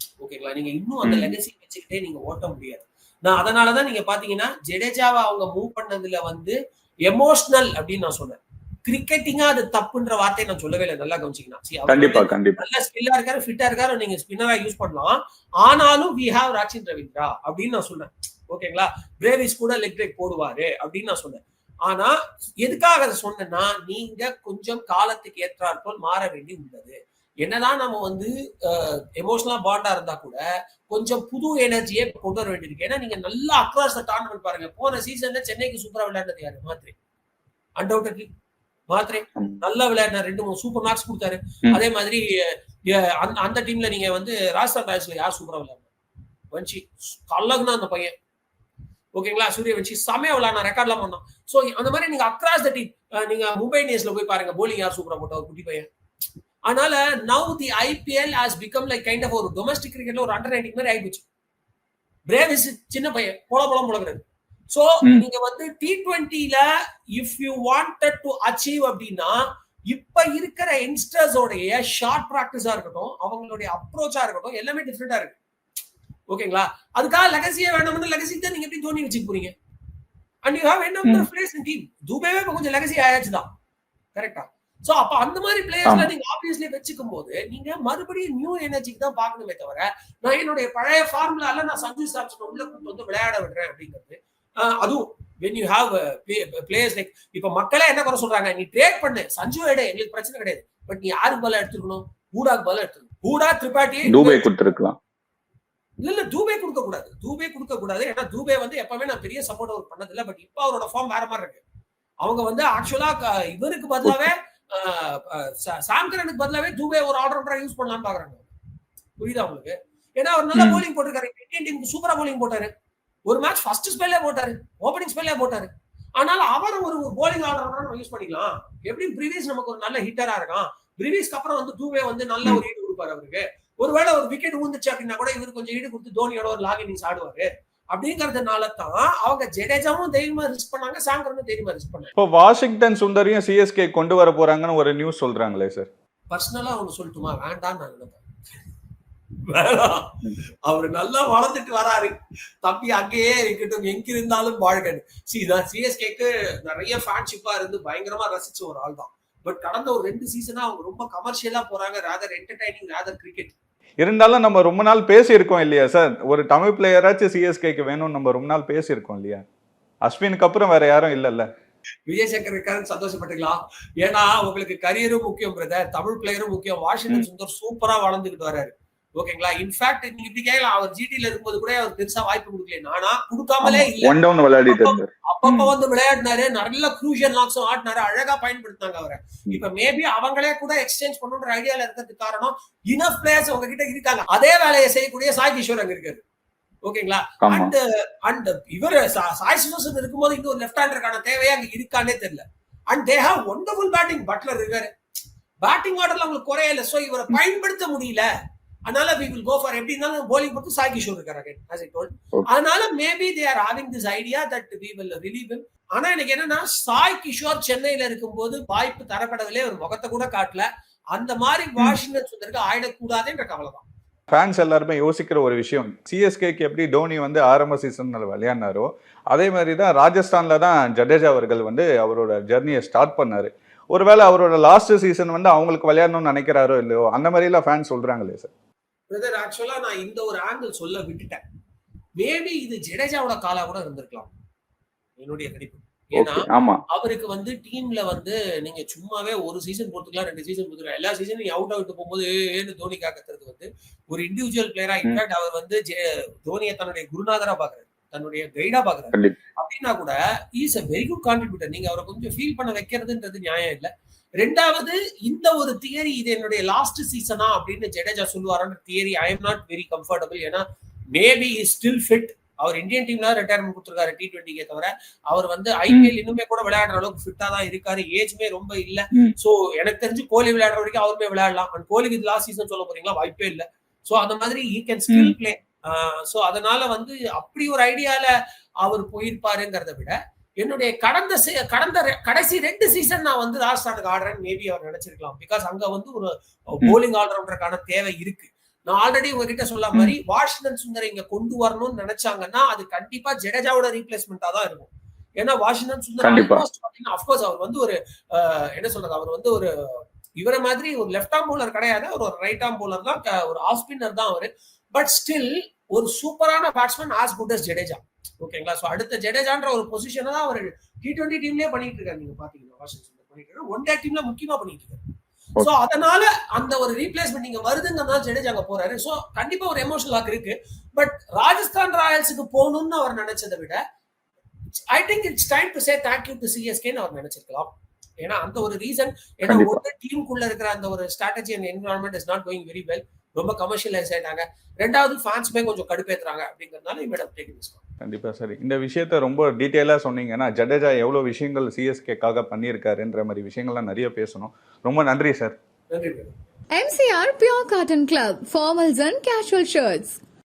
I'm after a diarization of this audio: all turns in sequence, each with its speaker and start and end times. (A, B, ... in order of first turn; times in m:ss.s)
0:00.2-0:06.6 A
0:01.0-0:01.3 B
0:07.1-0:36.9 A
0:11.9-0:12.6 B
0:37.8-0:38.3 A
0:38.9-0:42.2 A
0:42.9-0:45.9 A
0:46.5-0:48.1 A
0:49.2-0:55.9 A
0:56.7-1:01.3 A
1:02.3-1:06.6 A
1:07.2-1:09.4 A
1:09.9-1:15.4 A
1:16.3-1:19.5 A
1:20.4-1:23.4 A
1:24.1-1:44.5 A
1:25.8-1:26.1 B
1:44.0-1:45.0 B
1:46.0-1:51.6 A
1:52.2-1:58.5 A
1:54.0-1:54.3 B
1:59.2-2:02.7 A
2:00.5-2:00.8 B
2:03.3-2:22.1 A
2:22.2-2:25.9 B
2:26.3-2:28.2 A
2:29.5-2:30.1 A
2:30.6-2:43.5 A
2:44.0-2:49.4 B
2:50.0-2:51.4 B
2:52.1-3:16.2 A
3:03.6-3:05.7 B
3:16.8-3:24.9 A
3:17.4-3:17.7 B
3:25.6-3:28.3 A
3:28.9-3:43.8 A
3:44.3-3:58.5 B
3:59.1-4:01.4 A
4:02.2-4:04.3 A
4:05.2-4:30.6 A
4:06.1-4:06.8 B
4:31.1-4:48.3 A
4:35.9-4:36.1 B
4:45.1-4:45.3 B
4:48.8-5:09.7 A
5:06.2-5:06.6 B
5:10.4-5:25.0 A
5:25.6-5:33.8 A
5:34.9-5:37.7 A
5:38.2-5:47.8 A
5:39.5-5:39.8 B
5:48.0-5:55.5 B
5:55.9-5:56.3 A
5:56.7-6:00.2 C